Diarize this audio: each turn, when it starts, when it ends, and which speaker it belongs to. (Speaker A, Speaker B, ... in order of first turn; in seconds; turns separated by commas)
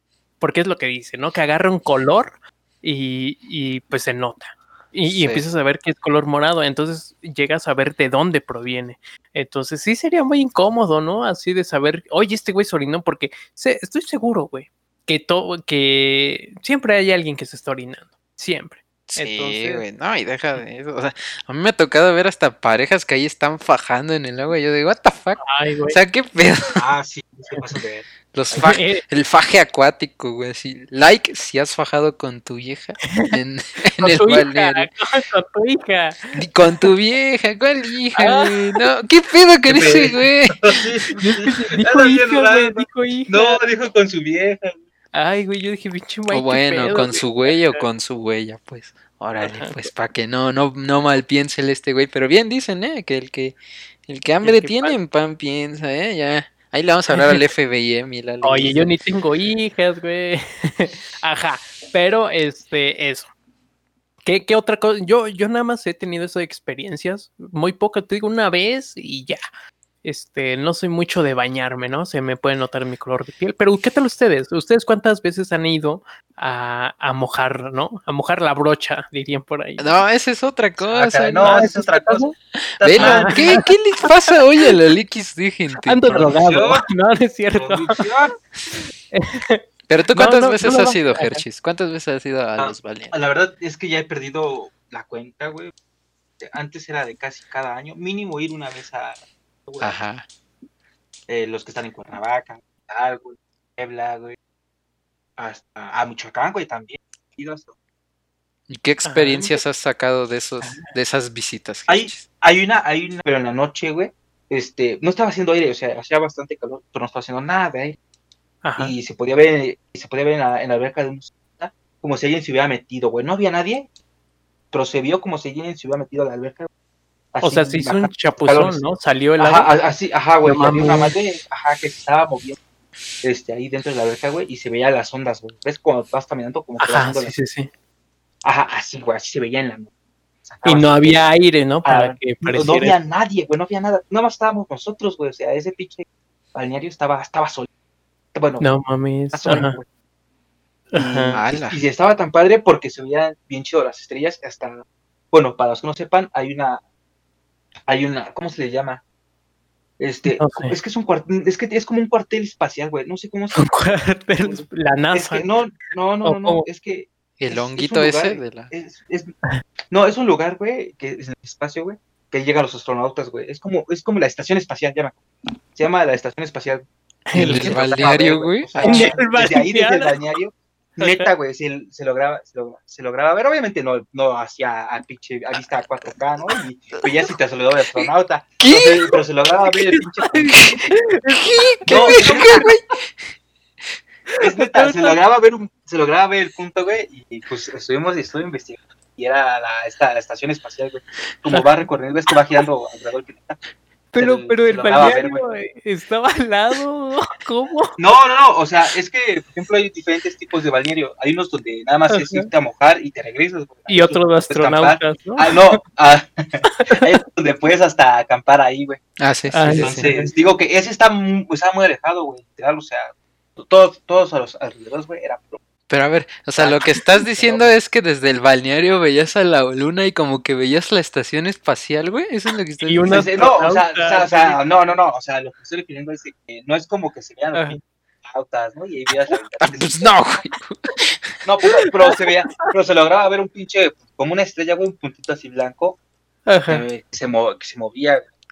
Speaker A: 0.4-19.9, Speaker B: 5.1-5.5, Speaker C: 19.1-26.8, Speaker A: 25.4-26.0, Speaker B: 26.8-28.1, Speaker C: 28.3-34.9, Speaker A: 28.5-29.0, Speaker A: 33.1-33.4, Speaker A: 34.0-36.9, Speaker C: 36.4-40.8, Speaker A: 38.2-38.8, Speaker B: 39.7-44.8, Speaker A: 41.2-43.6, Speaker A: 45.1-47.8, Speaker C: 46.3-58.9, Speaker A: 49.4-49.9, Speaker A: 54.4-55.0, Speaker A: 57.1-57.4, Speaker A: 58.4-63.3, Speaker A: 64.2-69.4, Speaker A: 70.0-80.0, Speaker C: 79.8-81.6, Speaker B: 80.9-82.3, Speaker A: 81.4-82.3, Speaker C: 82.5-86.3, Speaker B: 82.8-83.6, Speaker A: 83.0-84.7, Speaker A: 85.8-88.0, Speaker B: 86.1-86.8, Speaker B: 87.6-88.3, Speaker A: 88.7-89.6, Speaker C: 89.9-93.2, Speaker A: 90.2-91.4, Speaker B: 92.6-95.7, Speaker B: 96.4-100.0, Speaker C: 99.8-100.2, Speaker B: 101.3-104.4, Speaker B: 105.4-107.8, Speaker C: 108.7-112.2, Speaker A: 109.1-109.6, Speaker B: 111.9-118.0, Speaker A: 118.6-119.0, Speaker B: 118.8-123.9, Speaker B: 124.7-126.7, Speaker B: 127.3-128.8, Speaker A: 127.4-129.7, Speaker B: 129.4-132.6, Speaker A: 130.4-131.2, Speaker B: 133.2-137.3, Speaker A: 136.8-137.7, Speaker B: 138.4-139.9, Speaker B: 140.4-141.3, Speaker A: 140.6-142.9, Speaker B: 141.8-147.7, Speaker B: 148.3-148.6, Speaker A: 148.6-149.8, Speaker B: 149.3-149.9, Speaker A: 150.9-151.4, Speaker B: 150.9-156.8, Speaker C: 151.3-151.8, Speaker B: 157.9-159.0, Speaker B: 160.0-163.7, Speaker A: 160.4-160.8, Speaker A: 163.5-165.5, Speaker B: 164.4-169.3, Speaker A: 166.2-166.6, Speaker C: 167.4-168.7, Speaker B: 169.9-175.2, Speaker B: 175.7-190.9, Speaker A: 177.3-177.9, Speaker C: 177.3-179.1, Speaker A: 178.8-180.2, Speaker A: 181.0-181.3, Speaker C: 188.6-189.1, Speaker A: 190.0-192.3, Speaker C: 190.5-193.1, Speaker B: 191.9-192.7, Speaker A: 194.3-195.2, Speaker B: 194.4-205.4, Speaker A: 201.5-201.8, Speaker A: 202.3-202.7, Speaker A: 204.1-208.0, Speaker B: 208.0-219.0, Speaker A: 212.1-212.5, Speaker A: 213.9-215.8, Speaker A: 216.7-217.0, Speaker C: 219.2-220.1, Speaker A: 219.5-220.3, Speaker B: 219.8-225.6, Speaker C: 225.9-233.3, Speaker B: 226.6-227.7, Speaker A: 232.8-234.6, Speaker B: 233.1-240.1, Speaker C: 239.6-240.9, Speaker B: 241.4-246.0, Speaker A: 241.8-242.7, Speaker A: 246.5-246.8, Speaker B: 246.7-248.3